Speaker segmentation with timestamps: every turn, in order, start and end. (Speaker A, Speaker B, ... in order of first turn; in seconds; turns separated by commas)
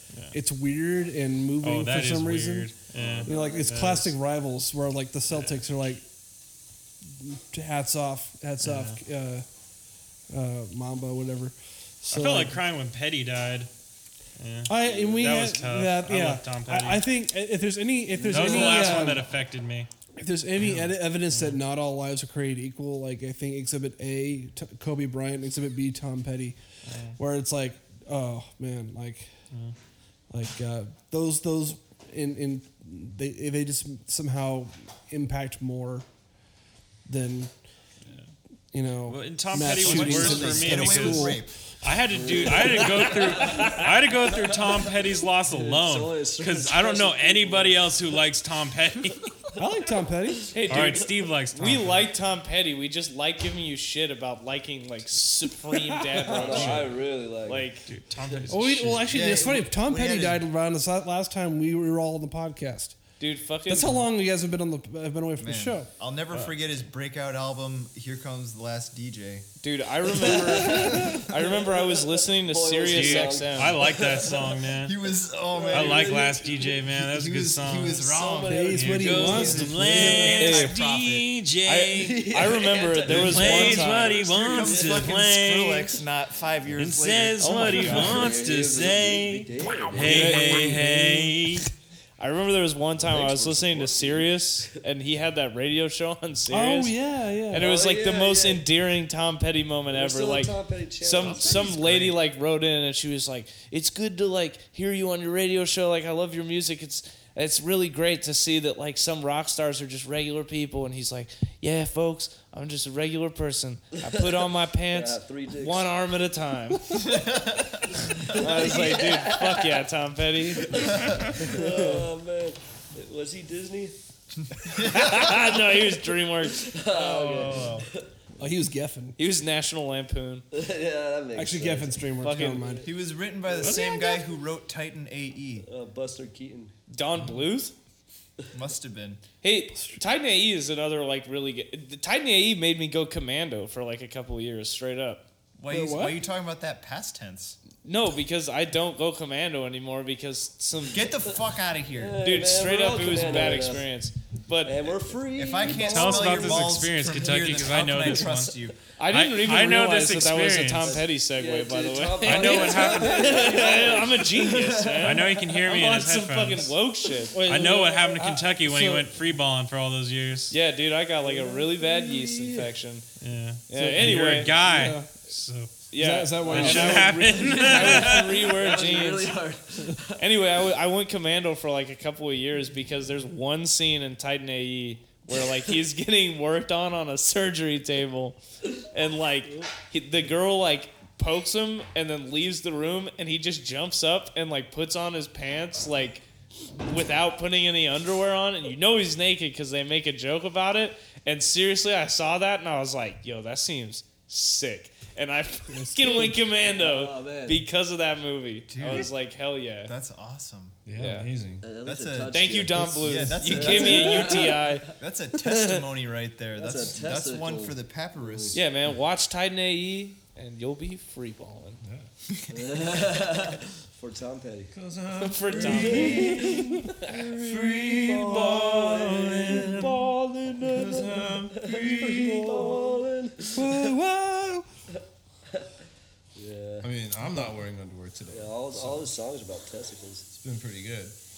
Speaker A: 0.3-2.7, Speaker B: 1.6-4.1, Speaker C: 2.9-3.7, Speaker A: 3.2-6.0, Speaker B: 5.3-5.6, Speaker A: 7.2-9.4, Speaker B: 8.6-9.0, Speaker A: 10.3-12.6, Speaker B: 12.1-13.7, Speaker B: 14.4-17.1, Speaker A: 14.7-19.3, Speaker C: 14.8-15.4, Speaker B: 18.2-19.9, Speaker C: 18.3-19.0, Speaker A: 20.2-26.6, Speaker B: 20.6-21.6, Speaker B: 26.9-27.1, Speaker A: 27.2-29.3, Speaker A: 30.3-36.1, Speaker A: 37.0-37.5, Speaker A: 38.7-41.4, Speaker B: 39.1-49.3, Speaker D: 39.6-41.5, Speaker C: 42.1-48.2, Speaker E: 43.5-43.7, Speaker A: 49.5-50.5, Speaker E: 50.5-57.9, Speaker B: 50.7-52.1, Speaker C: 56.1-57.7, Speaker B: 56.4-56.9, Speaker B: 57.9-59.3, Speaker A: 58.5-63.0, Speaker D: 59.1-60.5, Speaker E: 63.2-64.1, Speaker A: 63.7-65.9, Speaker D: 65.4-69.5, Speaker E: 69.6-73.8, Speaker C: 70.2-74.7, Speaker B: 72.9-74.9, Speaker D: 74.8-81.3, Speaker C: 75.5-76.8, Speaker B: 75.7-78.0, Speaker C: 77.8-79.6, Speaker A: 78.5-80.4, Speaker B: 78.7-82.3, Speaker E: 80.3-80.8, Speaker E: 81.7-84.2, Speaker C: 82.0-85.2, Speaker B: 83.0-85.9, Speaker D: 83.4-88.2, Speaker B: 86.7-91.7, Speaker E: 87.4-88.3, Speaker C: 87.5-90.8, Speaker E: 89.9-91.0, Speaker E: 92.2-97.0, Speaker C: 93.0-94.3, Speaker A: 96.5-97.6, Speaker E: 97.5-117.1, Speaker C: 97.5-98.6, Speaker C: 99.9-101.7, Speaker F: 101.2-102.2, Speaker C: 114.0-115.9, Speaker D: 116.9-118.4, Speaker C: 118.1-119.7, Speaker E: 118.3-120.9, Speaker C: 120.6-123.9, Speaker D: 120.8-121.2, Speaker E: 121.5-122.0, Speaker D: 124.5-125.2, Speaker E: 124.7-126.7, Speaker C: 125.1-125.4, Speaker C: 126.5-128.0, Speaker D: 126.9-127.9, Speaker A: 128.4-129.2, Speaker E: 129.2-130.4, Speaker C: 130.5-132.1, Speaker A: 131.3-132.8, Speaker E: 132.2-132.6, Speaker C: 132.6-132.9, Speaker D: 132.8-135.7, Speaker C: 133.4-134.2, Speaker C: 135.6-136.7, Speaker E: 136.9-137.7, Speaker F: 137.1-137.4, Speaker D: 138.5-139.2, Speaker E: 139.4-145.2, Speaker D: 145.6-147.6, Speaker A: 145.7-146.2, Speaker E: 147.8-151.1, Speaker D: 150.8-152.2, Speaker C: 151.9-153.9, Speaker E: 152.2-155.0, Speaker C: 154.6-157.6, Speaker D: 155.3-158.8, Speaker B: 155.7-158.5, Speaker E: 159.0-167.4, Speaker B: 159.1-161.0, Speaker C: 160.8-165.5, Speaker B: 162.2-163.8, Speaker B: 165.0-166.8, Speaker A: 167.3-169.1, Speaker B: 167.4-170.5, Speaker E: 170.5-173.1, Speaker C: 171.2-172.7, Speaker B: 173.2-175.8, Speaker E: 173.7-174.6, Speaker A: 173.7-175.1, Speaker E: 175.9-179.4, Speaker A: 175.9-177.3, Speaker B: 176.4-178.5, Speaker C: 176.5-180.2, Speaker E: 180.2-196.2, Speaker E: 196.8-209.9, Speaker A: 205.7-206.4, Speaker C: 206.7-207.6, Speaker D: 208.7-209.1, Speaker D: 209.8-210.8, Speaker F: 210.8-211.7, Speaker E: 211.0-211.3, Speaker C: 211.6-214.9, Speaker D: 211.8-218.6, Speaker E: 212.3-215.8, Speaker C: 216.6-218.6, Speaker E: 218.5-221.8, Speaker F: 221.8-222.1, Speaker D: 222.4-222.8, Speaker C: 222.5-224.7, Speaker F: 224.7-232.9, Speaker E: 225.2-227.1, Speaker C: 225.5-233.9, Speaker E: 229.7-230.6, Speaker A: 233.5-234.7, Speaker C: 236.3-236.9, Speaker F: 236.8-239.1, Speaker C: 238.3-240.2, Speaker F: 240.4-241.2